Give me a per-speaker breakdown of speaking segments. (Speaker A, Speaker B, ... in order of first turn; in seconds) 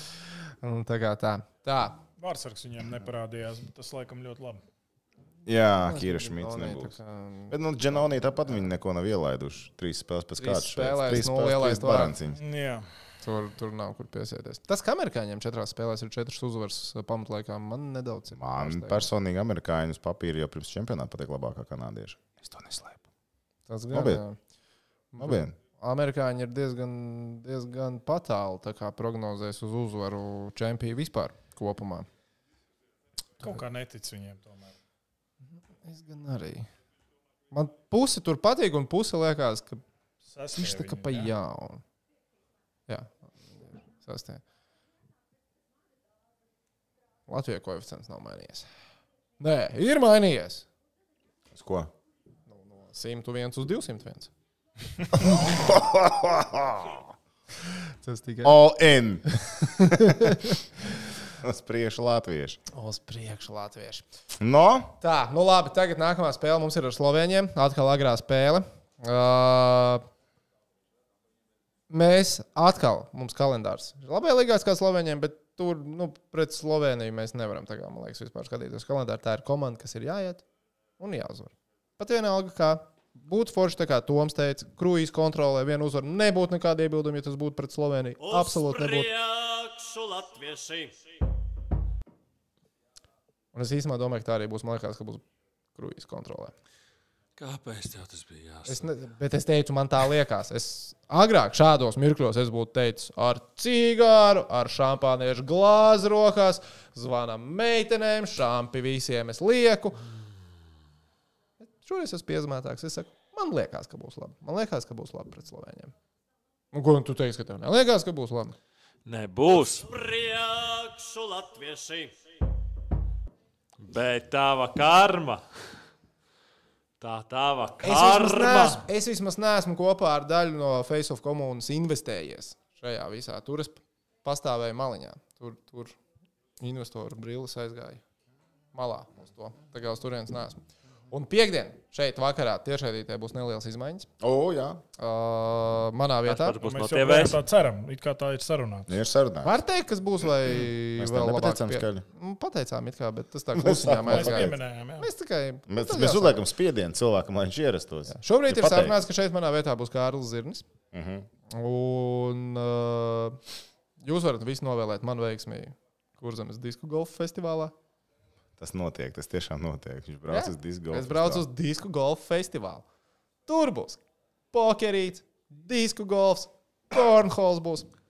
Speaker A: 0.6-2.0, 5.8-7.6, 10.4-12.1, 13.2-19.1, 23.7-24.4, 25.1-32.1, 35.8-36.7, 37.5-39.8, 40.5-41.8, 43.9-44.4, 47.3-48.7, 49.4-50.7, 52.5-54.3, 58.0-58.6, 59.8-60.5, 62.7-64.0, 65.0-70.0, 71.9-80.4, 81.0-89.1, 93.5-95.2, 95.7-96.5, 98.7-110.0, 111.7-115.9, 116.7-118.5, 127.8-136.0, 136.6-138.0, 138.7-144.1, 145.0-146.6, 149.4-156.4, 158.1-160.6, 161.5-163.4, 164.0-167.7, 170.3-172.8, 173.5-174.0, 174.5-177.9
Speaker B: 2.2-4.6, 12.3-12.9, 33.4-34.7, 40.3-41.3, 146.6-148.9, 154.1-155.1
Speaker C: 5.5-7.0, 7.5-12.4, 18.4-23.0, 23.9-24.2, 25.2-25.5, 51.5-51.9, 55.1-57.0, 58.4-60.4, 61.4-62.6, 64.4-64.9, 144.2-144.8, 148.9-149.5, 150.4-152.0, 153.5-154.6, 155.7-159.0, 160.9-161.3, 168.6-171.4
Speaker D: 88.2-90.9, 119.5-122.1
Speaker E: 97.4-98.9, 119.0-119.9, 123.8-125.4, 127.0-128.8, 146.3-147.4